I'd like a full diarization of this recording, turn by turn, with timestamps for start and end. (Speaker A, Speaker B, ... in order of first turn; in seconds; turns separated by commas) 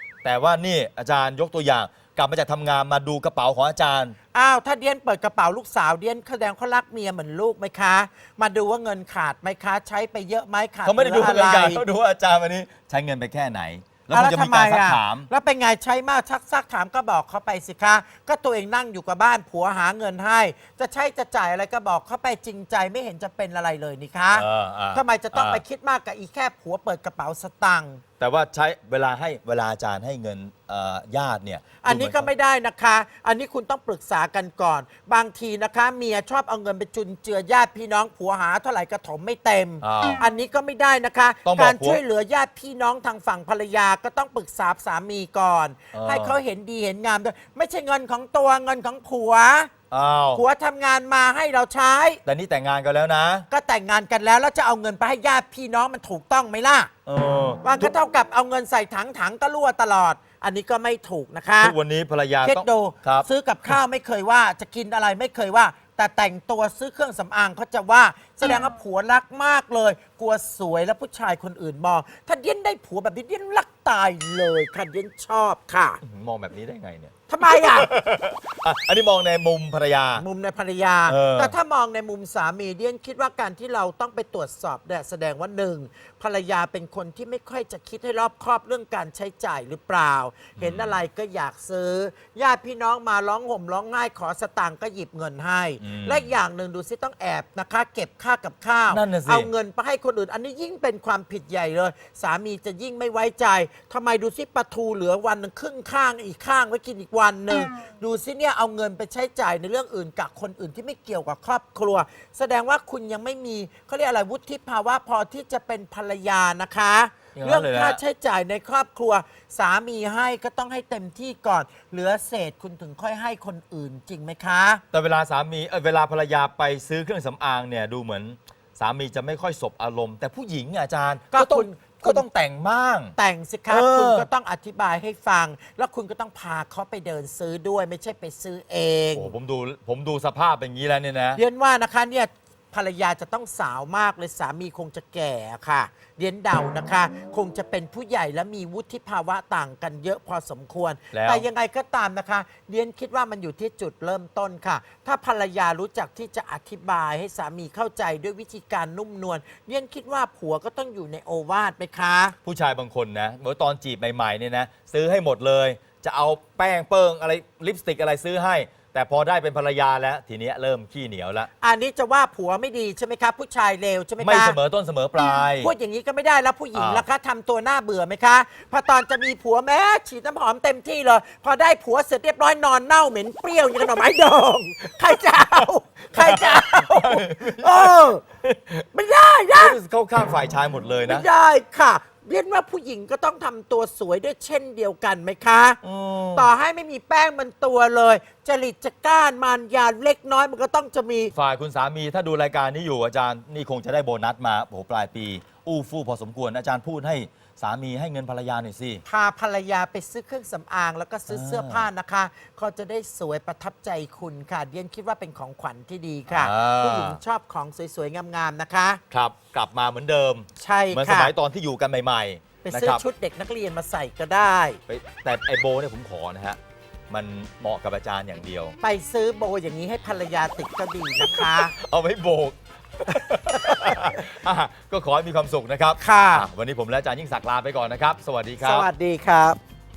Speaker A: 0.2-4.2, Speaker B: 4.3-11.8, Speaker A: 10.8-15.3, Speaker B: 14.1-28.0, Speaker A: 24.3-25.6, Speaker A: 28.2-32.3, Speaker B: 31.8-49.7, Speaker A: 39.8-40.2, Speaker A: 41.4-42.0, Speaker A: 45.9-46.4, Speaker A: 49.9-50.4, Speaker B: 50.3-52.2, Speaker A: 52.2-53.5, Speaker B: 53.5-56.9, Speaker A: 57.0-57.9, Speaker B: 57.6-61.8, Speaker A: 61.6-63.3, Speaker B: 62.4-76.0, Speaker A: 76.0-80.2, Speaker B: 77.3-77.9, Speaker B: 80.1-124.8, Speaker A: 81.1-81.5, Speaker A: 90.6-91.0, Speaker A: 95.8-96.3, Speaker A: 98.9-99.5, Speaker A: 117.3-118.0, Speaker A: 124.9-133.2, Speaker B: 131.3-132.2, Speaker B: 133.2-139.3, Speaker A: 133.7-134.3, Speaker A: 139.1-141.4, Speaker B: 141.3-162.3, Speaker A: 151.1-151.5, Speaker A: 162.4-171.5, Speaker B: 171.6-174.6, Speaker A: 174.2-175.7, Speaker B: 175.5-188.2, Speaker A: 176.7-177.0, Speaker A: 186.1-188.8, Speaker B: 188.9-189.8, Speaker A: 189.5-191.3, Speaker B: 191.1-195.8, Speaker A: 195.8-196.5, Speaker B: 196.3-201.3, Speaker A: 201.3-209.0, Speaker B: 209.0-219.0, Speaker A: 211.3-211.9, Speaker A: 216.3-217.2, Speaker A: 219.1-223.0, Speaker B: 220.6-221.3, Speaker B: 222.6-224.8, Speaker A: 224.9-226.6, Speaker A: 227.1-228.8, Speaker B: 228.8-231.7, Speaker A: 231.3-238.9, Speaker B: 233.5-234.2, Speaker B: 236.0-236.4, Speaker B: 238.6-239.6